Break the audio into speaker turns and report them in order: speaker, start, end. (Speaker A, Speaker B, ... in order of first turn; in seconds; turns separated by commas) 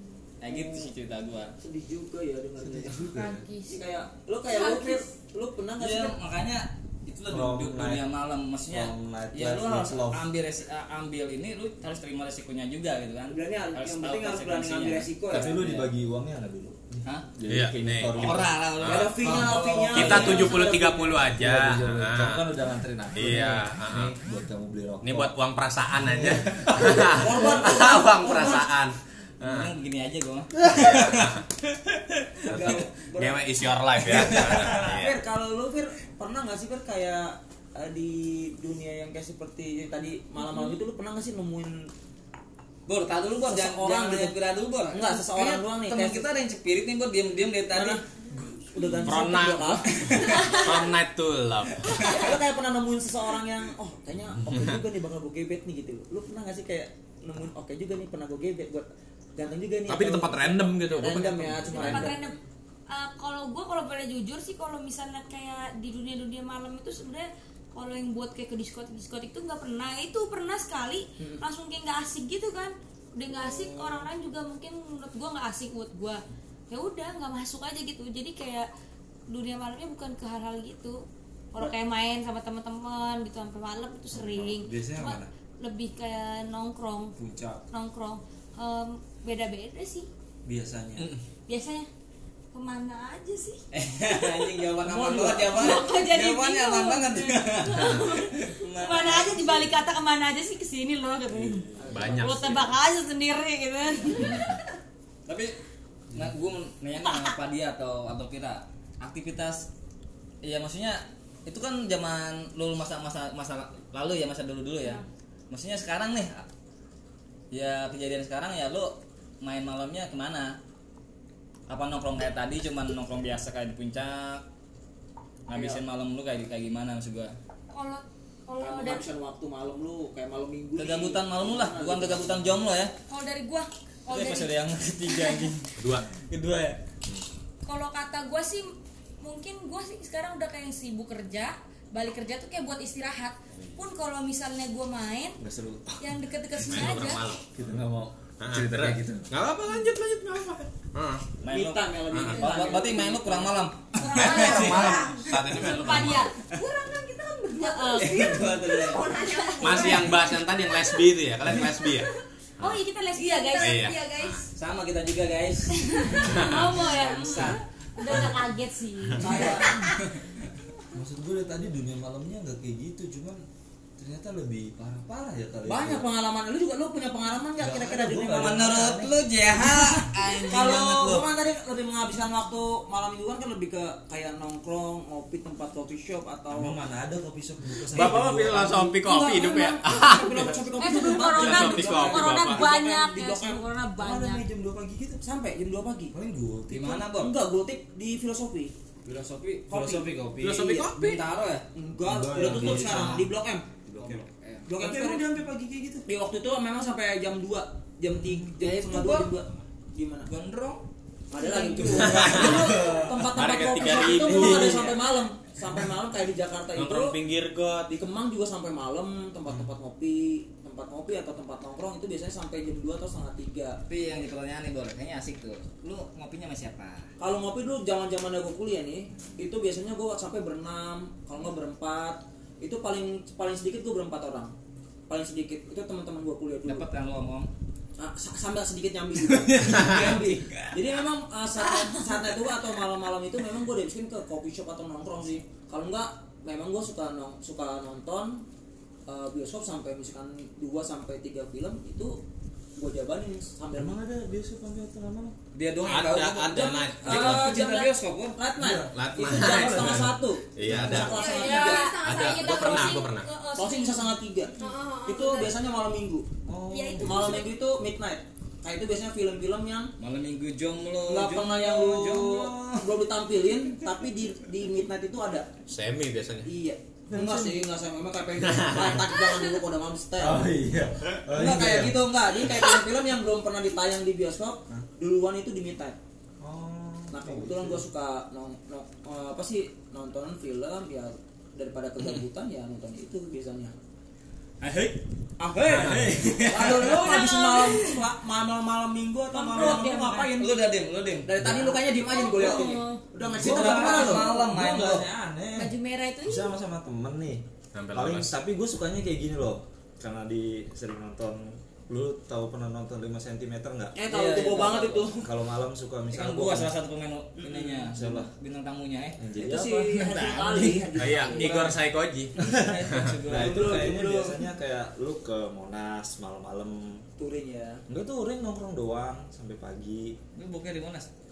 Speaker A: 0.4-1.5, Speaker B: 0.5-0.9, Speaker B: 1.6-3.0, Speaker C: 2.6-3.5, Speaker D: 3.1-3.8, Speaker B: 3.7-6.2, Speaker D: 4.5-5.1, Speaker A: 5.8-15.9, Speaker C: 7.3-8.1, Speaker C: 8.7-10.2, Speaker B: 13.3-15.5, Speaker C: 15.3-18.5, Speaker A: 17.0-17.3, Speaker E: 17.5-19.1, Speaker A: 18.1-20.5, Speaker B: 18.9-21.3, Speaker C: 19.1-20.2, Speaker E: 19.9-22.4, Speaker C: 21.3-25.3, Speaker E: 23.1-24.1, Speaker E: 25.0-29.7, Speaker C: 25.9-27.5, Speaker B: 27.1-28.7, Speaker A: 29.4-32.7, Speaker E: 31.0-31.4, Speaker B: 32.4-33.6, Speaker E: 32.5-35.2, Speaker A: 34.1-34.8, Speaker B: 34.2-41.9, Speaker D: 40.4-40.7, Speaker A: 42.9-48.0, Speaker B: 43.4-44.3, Speaker B: 44.9-46.2, Speaker B: 47.7-48.0, Speaker C: 48.3-48.8, Speaker B: 48.7-50.7, Speaker E: 49.0-51.9, Speaker A: 49.9-50.6, Speaker D: 50.2-50.6, Speaker A: 51.7-52.3, Speaker B: 52.0-62.4, Speaker E: 54.5-54.8, Speaker E: 59.9-62.1, Speaker D: 61.7-62.4, Speaker D: 62.9-78.7, Speaker B: 73.3-74.1, Speaker D: 79.3-81.0, Speaker D: 81.5-87.1, Speaker C: 84.1-85.3, Speaker C: 87.2-87.6, Speaker D: 87.7-90.1, Speaker C: 90.4-91.1, Speaker D: 91.5-91.9, Speaker D: 92.5-94.2, Speaker A: 93.7-99.7, Speaker B: 94.8-95.9, Speaker D: 95.5-104.6, Speaker C: 101.4-101.9, Speaker B: 101.8-102.3, Speaker E: 101.9-102.7, Speaker A: 105.2-105.5, Speaker A: 106.1-109.7, Speaker D: 107.0-107.3, Speaker A: 110.4-116.5, Speaker A: 117.5-120.6, Speaker A: 121.7-124.4, Speaker A: 125.5-127.3, Speaker B: 125.5-125.8, Speaker D: 127.7-129.1, Speaker B: 128.6-132.5, Speaker A: 130.8-132.9, Speaker D: 133.1-134.5, Speaker A: 134.1-136.8, Speaker D: 135.1-135.5, Speaker E: 135.8-136.1, Speaker D: 137.6-145.4, Speaker C: 145.4-146.2, Speaker D: 146.0-147.3, Speaker E: 146.6-147.4, Speaker C: 147.5-149.3, Speaker E: 148.4-151.3, Speaker A: 151.4-155.0, Speaker B: 151.5-153.5, Speaker E: 152.1-152.5, Speaker D: 154.0-156.5, Speaker E: 154.1-156.3, Speaker F: 154.8-155.2, Speaker F: 156.6-160.4, Speaker D: 157.5-160.3, Speaker A: 158.0-159.0, Speaker E: 159.6-162.1, Speaker D: 162.6-164.0, Speaker F: 163.1-164.4, Speaker E: 163.6-164.4, Speaker A: 164.5-167.6, Speaker D: 165.7-169.8, Speaker E: 166.2-166.8, Speaker B: 169.2-169.9, Speaker A: 169.8-170.2, Speaker C: 170.9-173.4, Speaker C: 174.0-176.1, Speaker B: 175.7-178.8, Speaker C: 177.6-179.2, Speaker A: 178.3-181.3, Speaker B: 180.4-186.8, Speaker C: 186.5-188.9, Speaker E: 187.9-190.6, Speaker B: 187.9-193.6, Speaker D: 190.8-194.4, Speaker E: 191.1-192.7, Speaker C: 194.0-195.2, Speaker B: 195.2-196.1, Speaker C: 196.1-197.1, Speaker A: 196.7-197.3, Speaker B: 197.1-198.7, Speaker A: 199.0-200.0, Speaker B: 199.7-200.9, Speaker C: 199.7-200.7, Speaker E: 200.4-201.2, Speaker A: 200.7-201.6, Speaker B: 201.7-203.7, Speaker C: 202.0-203.3, Speaker A: 202.4-203.2, Speaker C: 203.8-204.2, Speaker A: 204.0-204.8, Speaker B: 204.7-205.2, Speaker C: 204.8-206.1, Speaker B: 206.1-210.3, Speaker C: 208.1-208.5, Speaker A: 208.6-209.3, Speaker A: 210.3-210.8, Speaker B: 211.3-217.2, Speaker D: 211.4-212.0, Speaker E: 211.9-212.7, Speaker C: 211.9-213.3, Speaker E: 213.3-214.9, Speaker C: 214.2-214.9, Speaker A: 214.5-214.9, Speaker E: 216.7-217.9, Speaker B: 217.9-223.8, Speaker A: 223.9-227.1, Speaker B: 227.2-234.5, Speaker B: 235.1-236.8, Speaker A: 236.6-237.5, Speaker B: 238.0-248.4, Speaker A: 239.3-240.8, Speaker E: 239.6-240.1, Speaker B: 249.1-252.2, Speaker B: 252.8-253.9, Speaker C: 253.7-255.3, Speaker A: 255.5-258.4, Speaker E: 255.8-257.6, Speaker B: 256.5-261.9, Speaker C: 258.6-261.2, Speaker E: 258.9-261.3, Speaker F: 261.1-263.1, Speaker D: 261.1-264.1, Speaker E: 261.9-263.3, Speaker B: 263.6-264.5, Speaker F: 264.6-265.5, Speaker B: 265.0-266.3, Speaker C: 266.4-267.5, Speaker D: 266.7-267.5, Speaker B: 267.0-269.9, Speaker A: 270.0-272.4, Speaker B: 271.1-275.5, Speaker C: 271.9-272.9, Speaker E: 275.7-276.5, Speaker B: 276.4-280.5, Speaker C: 277.1-277.6, Speaker E: 278.4-279.1, Speaker C: 280.2-282.1, Speaker B: 281.3-286.0, Speaker C: 286.4-287.9, Speaker B: 287.1-293.7, Speaker A: 294.6-295.0, Speaker B: 295.4-300.5, Speaker A: 295.6-297.2, Speaker D: 296.8-298.0, Speaker D: 299.3-300.3, Speaker A: 299.6-299.8, Speaker A: 300.4-301.6, Speaker B: 301.2-304.5, Speaker C: 301.5-301.7, Speaker D: 301.9-303.0, Speaker C: 303.3-305.7, Speaker A: 303.3-305.1, Speaker D: 305.6-306.5, Speaker C: 306.2-313.9, Speaker E: 307.7-308.3, Speaker B: 313.9-315.3, Speaker A: 314.1-315.1, Speaker C: 315.2-316.7, Speaker A: 316.1-319.2, Speaker B: 317.4-317.9, Speaker C: 317.9-318.3, Speaker C: 319.2-320.0, Speaker B: 319.4-321.8, Speaker A: 319.9-321.7, Speaker E: 320.9-322.3, Speaker C: 322.4-327.0, Speaker A: 322.5-323.9, Speaker B: 323.3-324.4, Speaker B: 327.2-327.8, Speaker C: 327.9-330.2, Speaker A: 330.3-331.1